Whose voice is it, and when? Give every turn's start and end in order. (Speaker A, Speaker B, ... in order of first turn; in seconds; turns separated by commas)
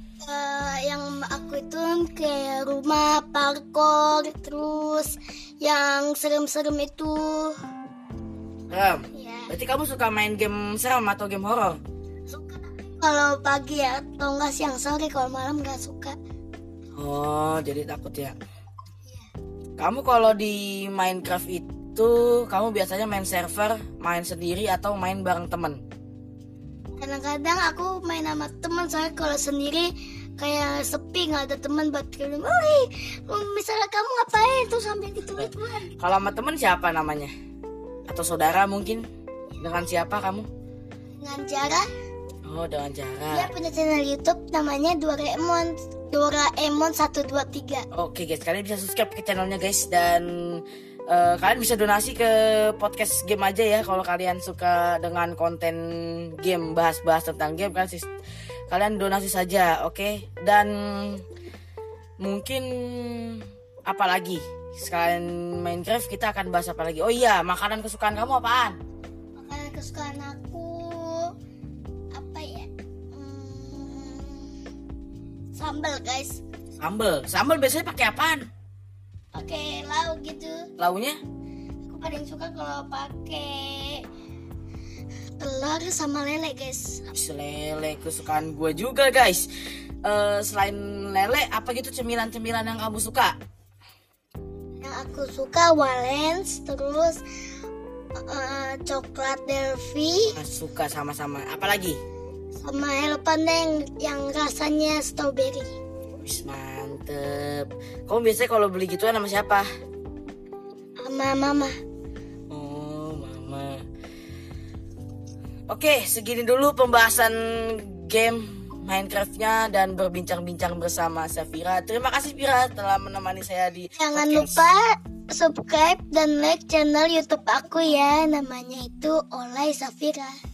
Speaker A: 0.2-7.6, Speaker B: 8.7-11.8, Speaker A: 9.1-9.5, Speaker A: 12.3-16.2, Speaker B: 17.0-18.4, Speaker B: 19.8-25.8, Speaker A: 27.0-35.9, Speaker B: 35.4-37.3, Speaker B: 38.1-39.0, Speaker B: 39.6-40.5, Speaker A: 41.2-41.9, Speaker B: 42.5-43.5, Speaker A: 43.3-47.9, Speaker B: 47.9-58.1, Speaker B: 58.7-61.2, Speaker B: 62.2-68.8, Speaker A: 69.4-71.3, Speaker A: 72.1-74.5, Speaker A: 75.5-76.4, Speaker B: 76.8-78.5, Speaker A: 79.3-80.7, Speaker B: 80.8-81.2, Speaker A: 81.9-84.0, Speaker A: 85.4-87.1, Speaker B: 87.1-89.5, Speaker B: 90.0-93.3, Speaker A: 94.8-97.2, Speaker A: 98.3-100.4, Speaker B: 100.3-102.0, Speaker A: 102.6-105.8, Speaker B: 106.2-109.7, Speaker A: 111.0-111.7, Speaker B: 112.5-113.8, Speaker B: 115.7-124.6, Speaker A: 124.0-130.4